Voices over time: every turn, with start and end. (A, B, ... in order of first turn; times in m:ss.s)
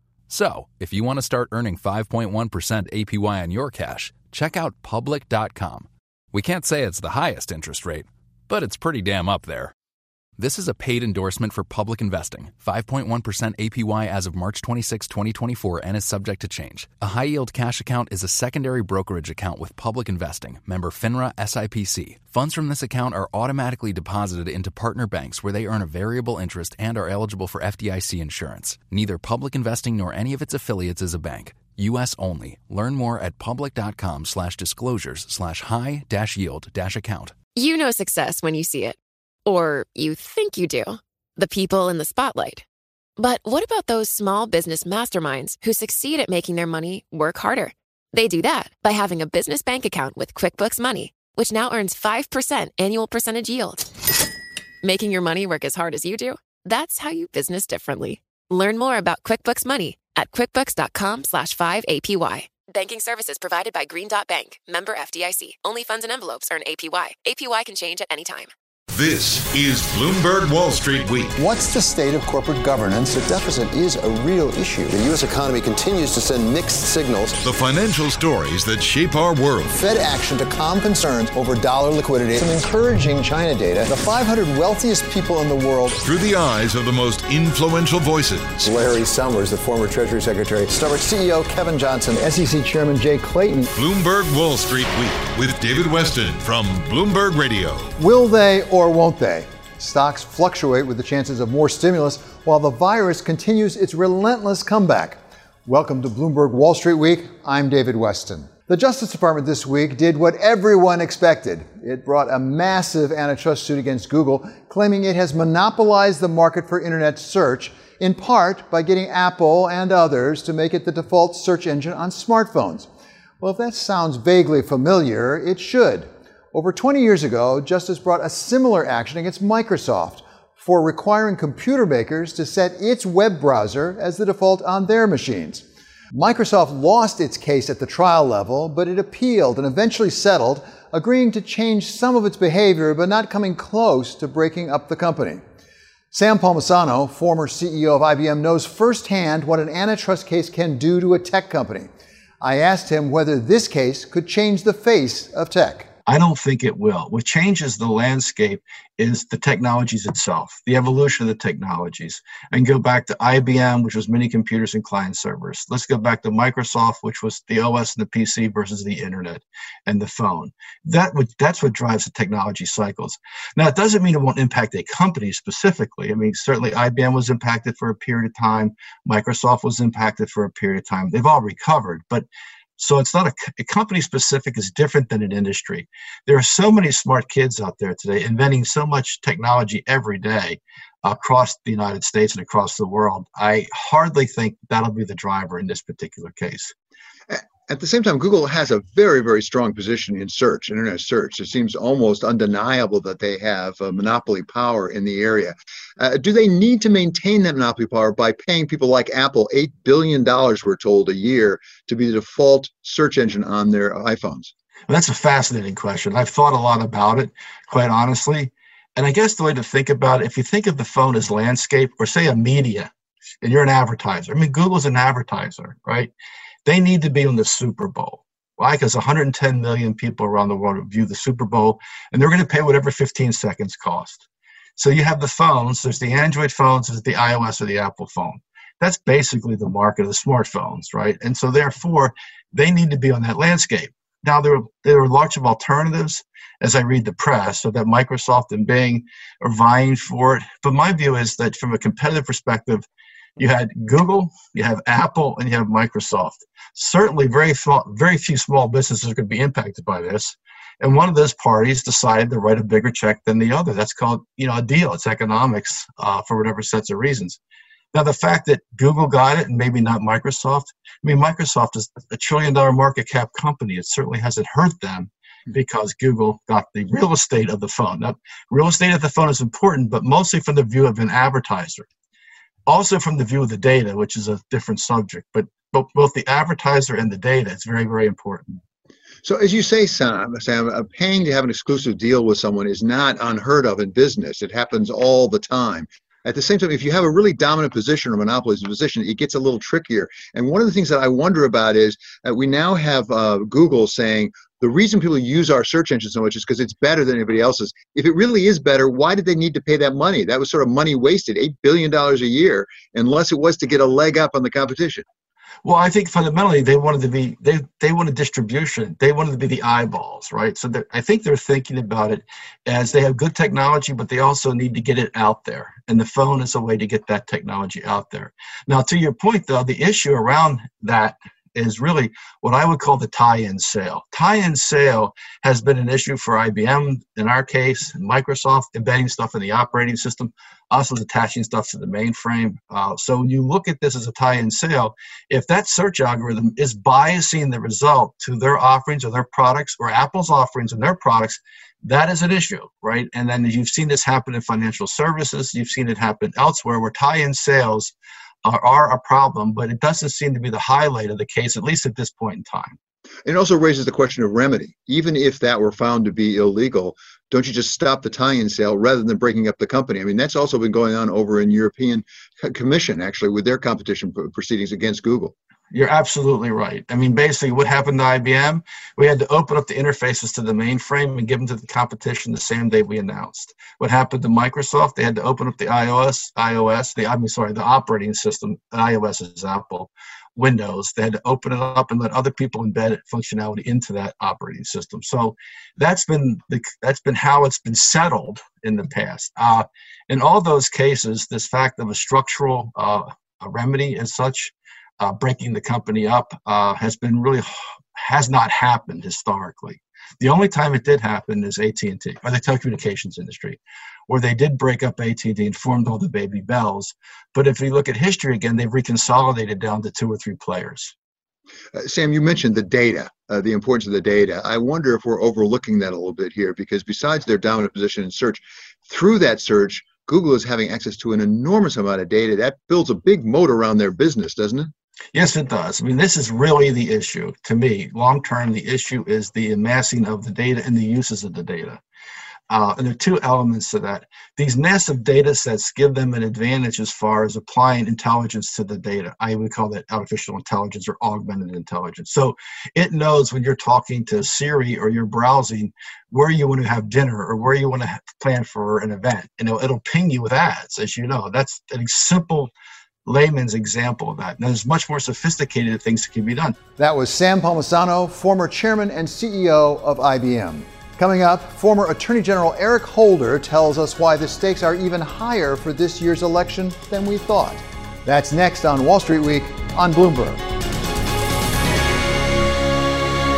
0:00.3-0:09.7 A
0:10.4-0:37.4 A
0:37.6-0:42.6 B
0:43.2-0:53.9 B
0:54.8-1:08.5 B
1:08.9-1:11.4 C
1:11.4-1:17.4 D
1:17.4-1:19.8 C
1:19.7-1:26.0 D
1:26.0-1:28.7 C
1:28.6-1:33.7 D
1:33.8-1:37.9 C
1:38.0-2:02.9 D
2:03.4-2:25.4 D
2:26.1-2:31.9 D
2:32.4-2:35.9 D
2:36.1-3:02.3 E
3:02.8-3:16.7 E
3:17.3-3:34.5 D
3:34.9-3:42.9 E
3:43.4-3:46.1 E
3:46.6-3:54.3 E
3:54.8-4:12.9 E
4:13.4-4:27.4 E
4:27.9-4:41.9 E
4:42.7-4:48.6 E
4:49.2-5:15.0 D
5:15.6-5:57.9 E
5:58.4-6:02.8 E
6:03.2-6:15.3 D
6:15.7-7:00.9 E
7:01.7-7:14.7 D
7:15.1-7:21.8 E
7:22.5-7:42.5 E
7:43.1-7:46.6 E
7:46.8-8:00.5 D